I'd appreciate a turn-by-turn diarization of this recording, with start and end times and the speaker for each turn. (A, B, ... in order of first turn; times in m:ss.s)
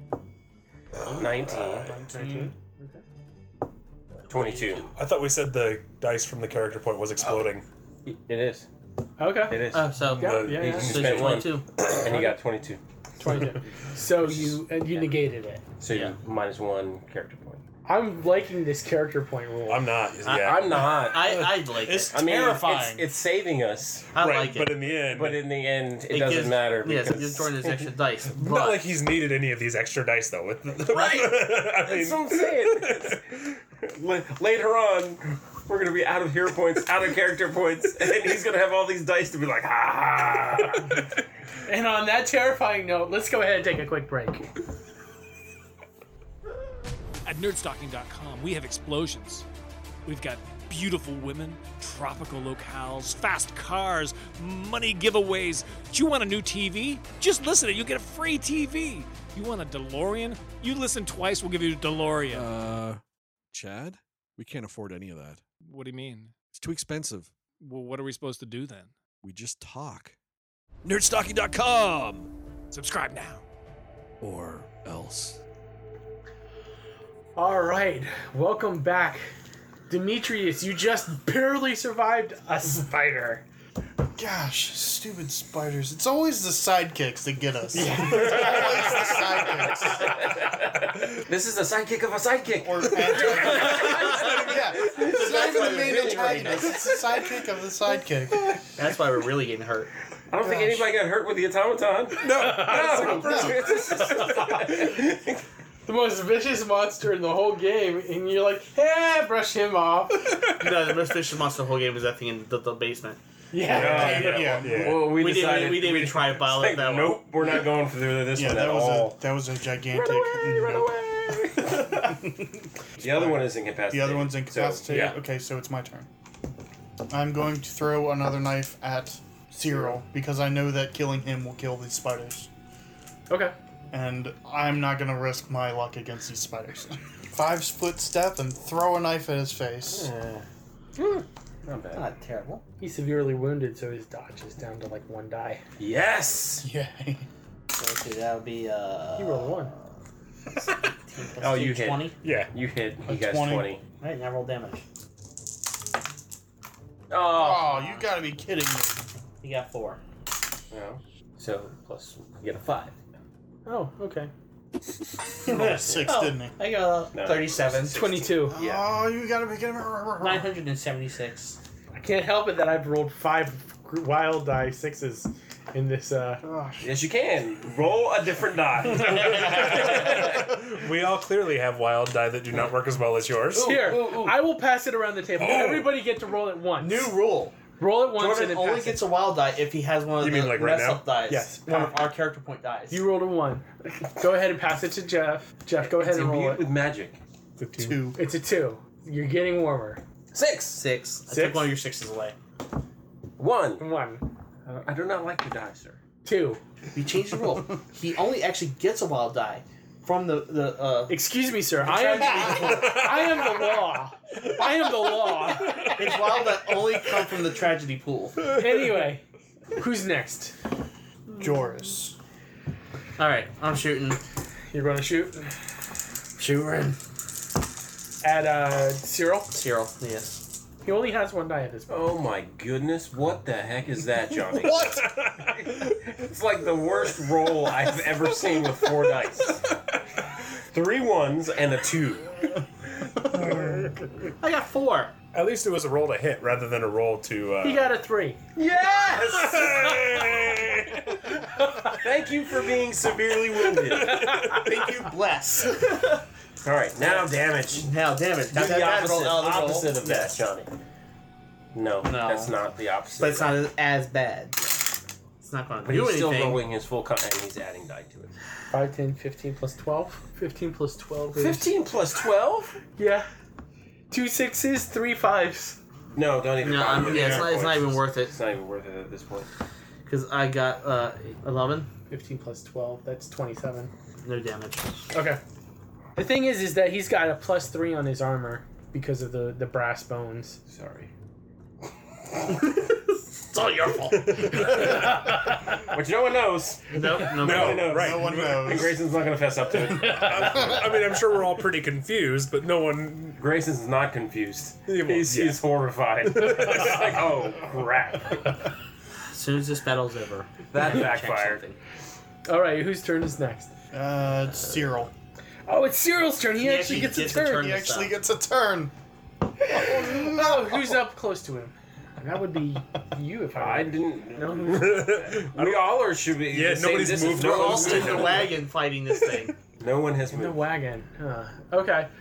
0:01.2-0:01.9 A
0:01.4-0:02.5 B
0:02.1-0:03.0 C
0:04.3-0:04.9 A
0:04.9-0:07.6 D
0:08.0-0:08.7 A
0:09.2-0:11.1 C
0:09.4-0:12.8 A
0:09.7-0:11.7 E
0:10.1-0:11.8 D
0:13.2-0:15.6 C
0:15.8-0:17.6 A
0:15.9-0:16.1 E
0:17.8-0:20.0 C
0:19.7-0:21.0 D
0:20.2-0:22.1 E
0:20.3-0:21.4 A
0:21.6-0:23.1 B
0:22.1-0:24.1 A
0:24.1-0:24.8 E
0:24.1-0:25.4 D
0:25.0-0:27.8 A
0:26.1-0:28.8 E
0:28.3-0:33.4 D
0:30.8-0:41.0 A
0:41.6-0:44.5 C
0:47.2-0:49.4 F
0:50.0-1:02.5 F
1:02.3-1:03.0 G
1:03.5-1:05.4 G
1:05.6-1:06.3 F
1:06.5-1:07.3 G
1:07.6-1:08.9 F
1:09.2-1:10.1 G
1:10.8-1:12.3 G
1:12.7-1:13.4 F
1:14.2-1:15.4 G
1:17.4-1:19.3 C
1:19.9-1:23.4 C
1:24.1-1:30.1 B
1:27.7-1:28.6 C
1:28.1-1:37.0 A
1:32.6-1:38.6 B
1:33.8-1:36.7 E
1:38.8-1:39.9 E
1:40.3-1:45.4 A
1:40.4-1:40.8 B
1:42.2-1:43.7 D
1:42.4-1:43.1 C
1:43.0-1:43.7 B
1:44.2-1:44.7 C
1:45.8-1:50.4 C
1:50.6-1:53.2 E
1:53.5-1:54.5 C
1:53.6-1:55.1 B
1:53.6-1:59.2 A
1:54.6-1:55.1 D
1:54.9-1:57.2 E
1:58.3-2:02.1 B
1:59.9-2:02.2 A
2:03.0-2:05.1 A
2:03.0-2:06.1 B
2:04.9-2:05.2 D
2:07.1-2:12.5 B
2:13.3-2:13.5 C
2:13.9-2:20.1 B
2:19.9-2:22.0 A
2:21.9-2:22.6 E
2:22.8-2:25.6 C
2:25.8-2:26.7 A
2:26.6-2:27.3 B
2:27.7-2:29.8 E
2:29.2-2:29.7 C
2:30.6-2:32.2 E
2:31.4-2:33.8 A
2:32.2-2:32.5 D
2:33.0-2:33.7 B
2:34.0-2:34.8 E
2:37.1-2:38.0 A
2:37.3-2:39.0 B
2:39.4-2:40.0 E
2:40.7-2:43.0 A
2:43.6-2:44.3 C
2:45.4-2:46.6 B
2:45.4-2:48.0 E
2:47.1-2:48.9 A
2:47.9-2:48.6 C
2:48.5-2:50.5 B
2:50.2-2:51.6 E
2:51.9-2:56.4 C
2:56.4-2:56.9 B
2:56.8-3:00.6 A
2:59.4-3:03.8 D
3:03.5-3:04.4 E
3:03.6-3:07.1 C
3:05.4-3:05.9 D
3:06.8-3:07.6 E
3:07.8-3:09.0 C
3:08.1-3:13.0 E
3:10.2-3:11.1 D
3:11.3-3:12.0 C
3:12.9-3:16.6 C
3:15.8-3:17.2 A
3:17.6-3:18.0 D
3:17.8-3:18.2 B
3:18.1-3:20.0 C
3:20.3-3:20.8 A
3:20.7-3:22.4 E
3:21.3-3:21.7 C
3:23.4-3:23.9 A
3:23.8-3:24.2 C
3:24.6-3:26.0 A
3:26.2-3:26.6 C
3:26.9-3:31.2 E
3:31.1-3:36.0 C
3:31.9-3:32.9 E
3:32.9-3:33.2 D
3:36.0-3:38.4 E
3:38.5-3:39.2 C
3:39.8-3:40.6 C
3:41.4-3:42.2 B
3:43.2-3:44.2 E
3:44.7-3:45.5 C
3:46.4-3:47.0 E
3:48.2-3:49.5 C
3:49.5-3:50.4 E
3:50.8-3:52.2 C
3:51.9-3:59.6 A
3:54.7-3:56.0 D
4:00.7-4:02.6 A
4:03.2-4:04.0 D
4:04.4-4:05.1 E
4:05.3-4:07.9 D
4:07.6-4:08.4 C
4:08.5-4:10.2 A
4:09.3-4:11.2 D
4:11.6-4:14.5 A
4:14.0-4:14.7 D
4:14.4-4:16.2 E
4:16.6-4:17.9 A
4:17.0-4:20.4 E
4:18.5-4:20.7 A
4:21.7-4:23.6 A
4:22.0-4:22.6 E
4:23.2-4:24.6 E
4:25.4-4:26.6 E
4:25.8-4:28.3 A
4:28.7-4:31.7 C
4:31.3-4:32.8 A
4:33.0-4:33.3 C
4:34.1-4:35.8 C
4:36.1-4:39.5 A
4:36.6-4:38.3 E
4:37.1-4:37.5 B
4:40.0-4:41.9 E
4:42.1-4:43.9 C
4:44.2-4:44.9 E
4:45.1-4:45.4 C
4:46.1-4:50.6 C
4:50.7-4:51.1 A
4:52.5-4:55.0 E
4:54.2-4:54.8 D
4:54.5-5:01.2 A
4:56.9-4:57.9 E
4:57.1-4:58.8 D
4:57.8-4:59.0 B
5:00.0-5:03.4 D
5:03.4-5:08.5 A
5:04.9-5:05.6 D
5:06.3-5:07.1 D
5:09.3-5:11.8 E
5:10.7-5:11.6 A
5:12.4-5:13.7 C
5:13.9-5:15.1 B
5:15.7-5:17.8 C
5:16.6-5:18.2 E
5:16.9-5:18.9 B
5:19.7-5:24.7 C
5:19.9-5:20.4 B
5:23.5-5:28.5 A
5:24.7-5:28.5 D
5:27.3-5:29.6 E
5:29.8-5:30.6 A
5:30.3-5:32.1 C